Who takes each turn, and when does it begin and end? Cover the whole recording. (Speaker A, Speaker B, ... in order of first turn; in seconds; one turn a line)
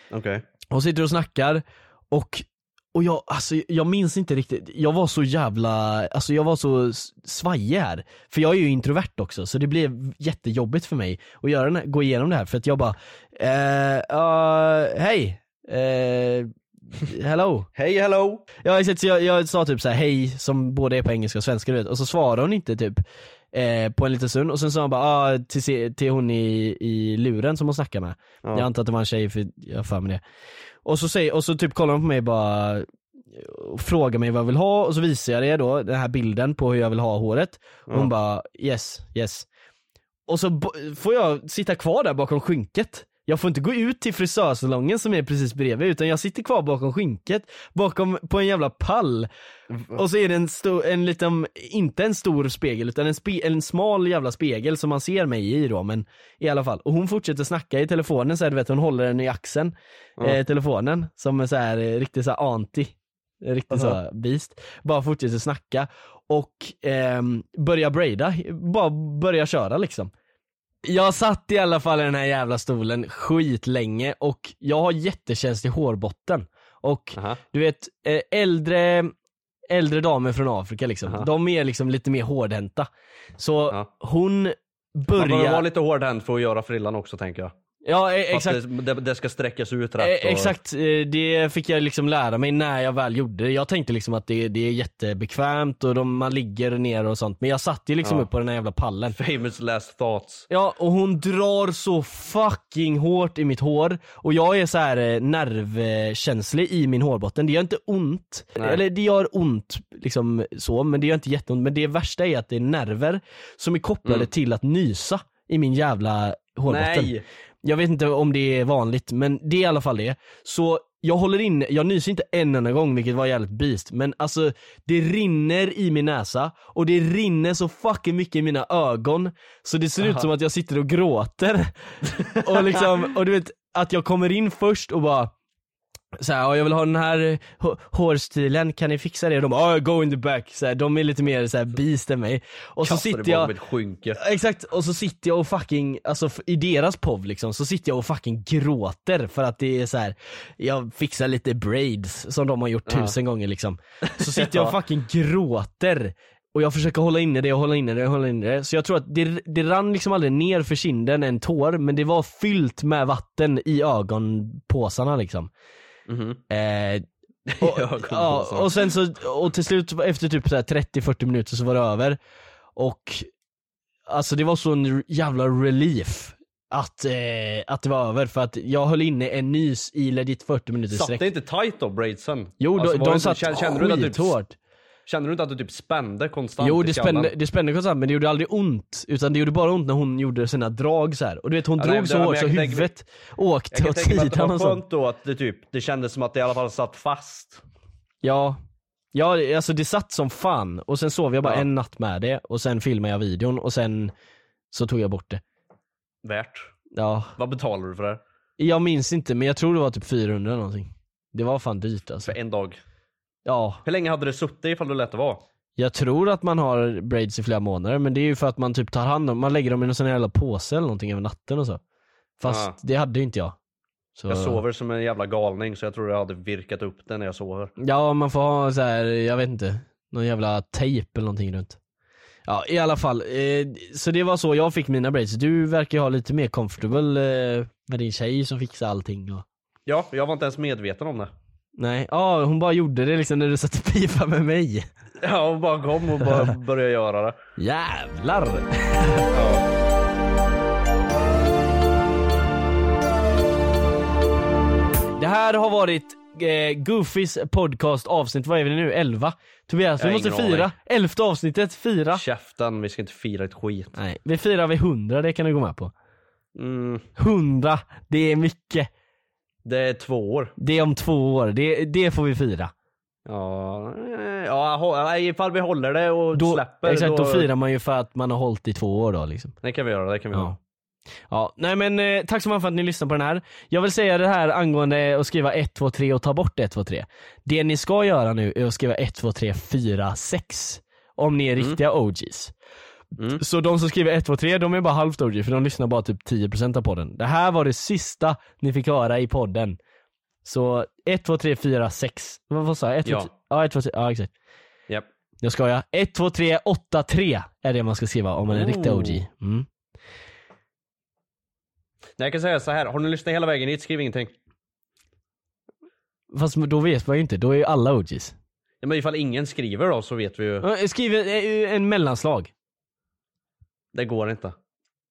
Speaker A: 0.1-0.5
Speaker B: 0.7-16.5
Speaker B: 17.0-17.7
Speaker A: 17.7-18.5
Speaker B: 18.6-30.2
Speaker B: 30.8-39.5
Speaker B: 40.3-49.3
Speaker A: 49.7-50.0
Speaker B: 49.9-70.1
Speaker A: 63.7-64.0
Speaker B: 70.8-79.1
Speaker B: 79.7-85.6
Speaker A: 85.2-87.5
Speaker B: 87.8-88.6
Speaker A: 88.3-90.5
Speaker B: 90.0-99.2
Speaker A: 99.1-100.5
Speaker B: 100.5-117.1
Speaker A: 108.5-108.8
Speaker A: 116.7-117.2
Speaker B: 117.6-131.7
Speaker B: 132.3-135.3
Speaker B: 136.2-143.5
Speaker A: 142.8-144.2
Speaker B: 144.2-165.5
Speaker A: 152.9-153.2
Speaker A: 154.1-154.8
Speaker A: 166.1-166.4
Speaker B: 166.5-167.0
Speaker A: 167.5-168.9
Speaker B: 167.6-172.2
Speaker B: 172.8-173.3
Speaker B: 174.1-181.2
Speaker A: 180.9-184.3
Speaker B: 182.6-184.5
Speaker A: 185.1-187.3
Speaker B: 186.6-194.8
Speaker A: 191.8-192.9
Speaker A: 193.7-197.6
Speaker B: 198.2-198.6
Speaker B: 199.1-204.1
Speaker B: 204.7-205.4
Speaker A: 206.2-206.7
Speaker B: 206.9-207.3
Speaker A: 207.3-208.2
Speaker B: 208.6-212.3
Speaker A: 212.2-212.8
Speaker B: 213.4-213.8
Speaker A: 213.8-215.4
Speaker B: 215.8-221.8
Speaker B: 222.4-223.6
Speaker A: 222.4-222.7
Speaker B: 224.2-224.6
Speaker A: 224.3-227.7
Speaker B: 227.8-231.8
Speaker B: 232.5-239.4
Speaker A: 239.8-241.3
Speaker B: 241.8-244.8
Speaker A: 245.2-247.4
Speaker B: 247.6-249.2
Speaker A: 249.3-249.6
Speaker B: 255.2-262.2
Speaker A: 260.0-260.7
Speaker A: 262.1-263.9
Speaker B: 263.9-265.9
Speaker A: 266.5-267.1
Speaker B: 267.2-268.9
Speaker A: 269.6-270.5
Speaker B: 270.6-272.7
Speaker A: 273.2-277.5
Speaker B: 276.3-279.6
Speaker A: 279.6-280.6
Speaker B: 281.3-292.5
Speaker B: 293.4-299.8
Speaker B: 300.4-304.3
Speaker A: 303.0-303.3
Speaker B: 305.4-309.6
Speaker A: 308.5-309.2
Speaker A: 312.2-314.3
Speaker B: 316.3-318.3
Speaker A: 318.8-320.6
Speaker B: 320.6-322.5
Speaker A: 323.9-324.5